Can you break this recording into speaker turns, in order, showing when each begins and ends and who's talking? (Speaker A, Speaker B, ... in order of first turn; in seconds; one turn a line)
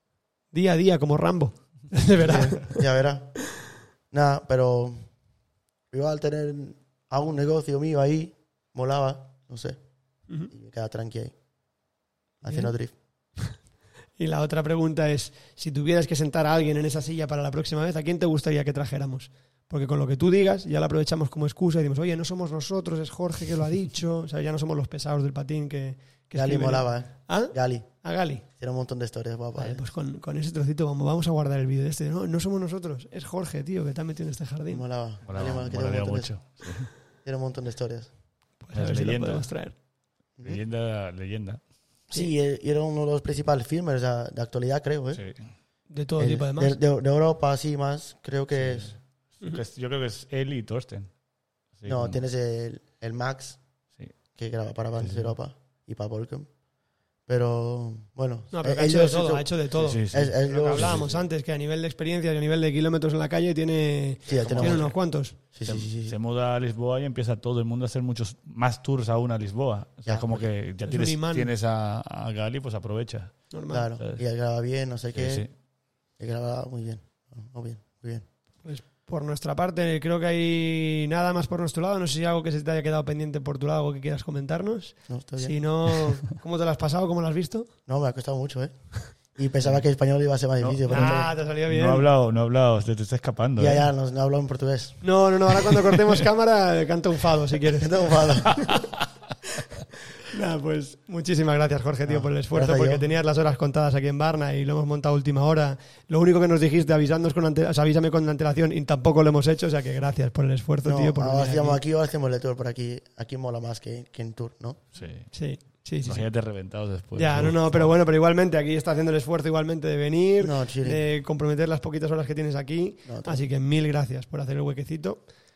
Speaker A: 0.5-2.8
Speaker B: 2.2-3.4
Speaker B: 4.1-5.1
Speaker B: 5.9-9.8
Speaker B: 10.5-11.3
Speaker B: 12.4-12.9
Speaker A: 12.4-12.7
Speaker A: 14.2-28.4
Speaker B: 26.3-27.9
Speaker B: 28.5-29.8
Speaker A: 29.6-34.8
Speaker B: 34.7-36.4
Speaker C: 35.3-36.9
Speaker B: 36.9-38.1
Speaker A: 38.6-39.8
Speaker C: 38.7-39.5
Speaker C: 40.4-41.6
Speaker B: 42.1-45.2
Speaker C: 45.1-45.5
Speaker A: 45.9-46.8
Speaker B: 46.2-48.9
Speaker C: 48.6-51.1
Speaker C: 51.8-52.2
Speaker B: 51.9-53.6
Speaker B: 54.3-56.5
Speaker C: 55.0-55.3
Speaker B: 57.3-59.5
Speaker A: 58.5-65.4
Speaker C: 59.8-61.2
Speaker B: 60.1-61.0
Speaker B: 64.2-64.9
Speaker C: 64.3-74.2
Speaker B: 65.5-66.2
Speaker B: 70.0-70.5
Speaker A: 70.8-71.5
Speaker A: 73.5-73.9
Speaker B: 73.7-75.4
Speaker C: 75.1-75.5
Speaker B: 76.2-78.2
Speaker A: 78.6-87.7
Speaker B: 85.1-85.5
Speaker B: 87.9-91.3
Speaker C: 90.6-93.8
Speaker A: 90.9-92.1
Speaker B: 93.6-95.0
Speaker A: 95.0-98.9
Speaker B: 97.8-98.7
Speaker A: 100.2-111.8
Speaker B: 102.1-103.0
Speaker B: 110.8-114.8
Speaker C: 114.9-115.3
Speaker A: 115.3-116.3
Speaker C: 115.8-117.9
Speaker A: 117.1-125.2
Speaker B: 120.4-121.0
Speaker B: 123.0-123.4